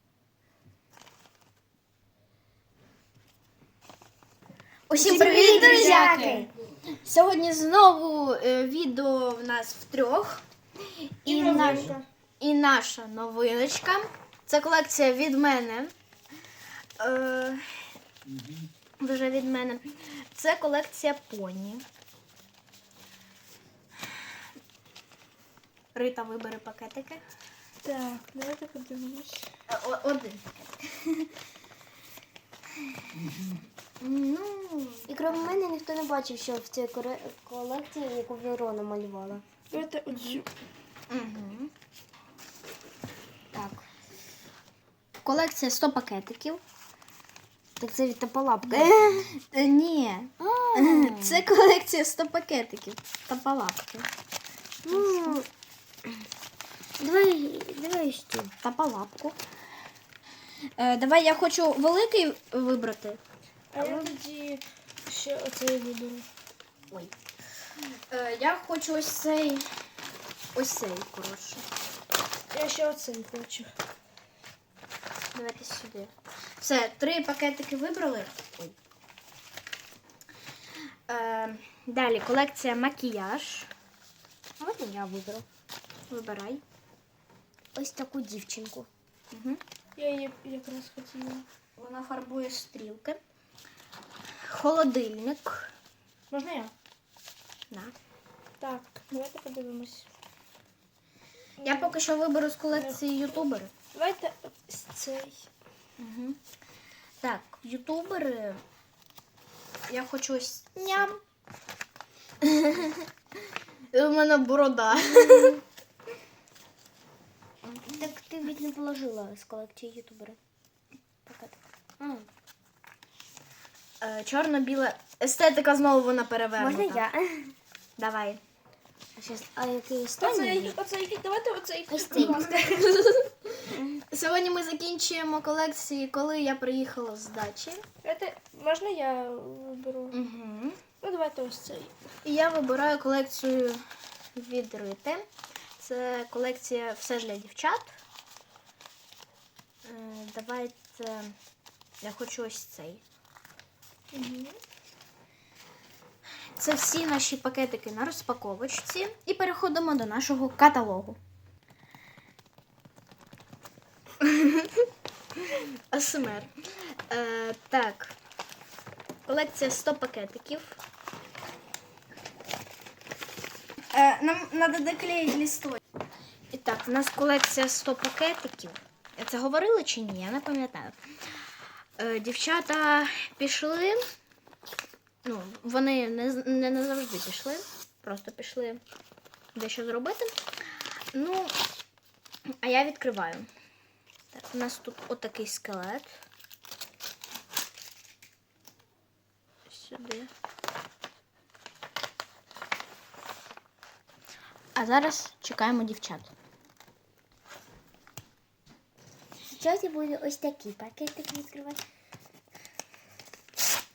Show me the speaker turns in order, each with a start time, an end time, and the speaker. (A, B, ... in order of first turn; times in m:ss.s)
0:04.9-0:06.5 A
0:05.0-0:06.5 B
0:05.6-0:06.2 C
0:07.0-0:10.4 A
0:11.2-0:15.9 A
0:11.3-0:12.1 C
0:17.0-0:17.9 A
0:19.0-0:21.8 A
0:25.9-0:27.2 A
0:27.8-0:29.5 C
0:29.7-0:30.4 A
0:34.0-0:35.5 A
0:35.1-0:39.4 B
0:39.7-0:40.5 C
0:41.1-0:41.7 A
0:43.5-0:43.9 B
0:45.2-0:46.6 A
0:47.8-0:49.0 B
0:48.7-0:54.1 A
0:50.4-0:51.4 B
0:54.8-0:55.5 B
0:54.9-0:55.4 A
0:57.0-0:58.5 B
0:58.6-0:59.4 A
1:00.8-1:03.2 A
1:03.7-1:06.3 C
1:03.8-1:04.1 A
1:08.1-1:09.6 A
1:10.6-1:11.7 A
1:12.5-1:13.7 C
1:15.3-1:18.7 A
1:21.1-1:23.7 A
1:24.6-1:25.5 B
1:26.1-1:26.6 A
1:27.8-1:28.9 B
1:29.3-1:29.6 A
1:30.0-1:31.4 C
1:31.8-1:33.2 A
1:34.5-1:35.7 A
1:36.3-1:36.7 C
1:38.6-1:40.1 C
1:41.6-1:42.0 C
1:41.6-1:43.7 A
1:42.7-1:43.4 C
1:43.9-1:45.5 C
1:46.0-1:46.4 A
1:47.2-1:48.6 A
1:49.9-1:51.2 A
1:52.4-1:53.1 A
1:53.9-1:55.6 A
1:57.7-2:00.4 B
2:01.3-2:02.3 B
2:04.0-2:07.1 A
2:06.6-2:07.6 B
2:08.0-2:08.4 A
2:09.2-2:10.8 B
2:10.2-2:13.2 C
2:11.9-2:12.5 B
2:14.1-2:17.8 A
2:18.0-2:20.2 C
2:20.1-2:20.8 A
2:21.0-2:22.0 C
2:22.2-2:23.8 A
2:24.4-2:25.2 A
2:25.8-2:27.9 A
2:29.8-2:31.3 A
2:32.0-2:33.0 A
2:34.1-2:34.6 C
2:36.6-2:41.2 A
2:44.2-2:44.8 A
2:45.5-2:46.5 A
2:47.1-2:48.1 A
2:49.3-2:50.8 A
2:53.9-2:55.8 A
2:56.5-3:01.0 A
3:02.0-3:04.0 A
3:05.2-3:08.8 A
3:09.6-3:10.3 A
3:11.1-3:11.5 A
3:12.6-3:13.5 A
3:14.3-3:16.2 A
3:19.7-3:20.3 A
3:24.8-3:26.3 A
3:29.4-3:31.8 B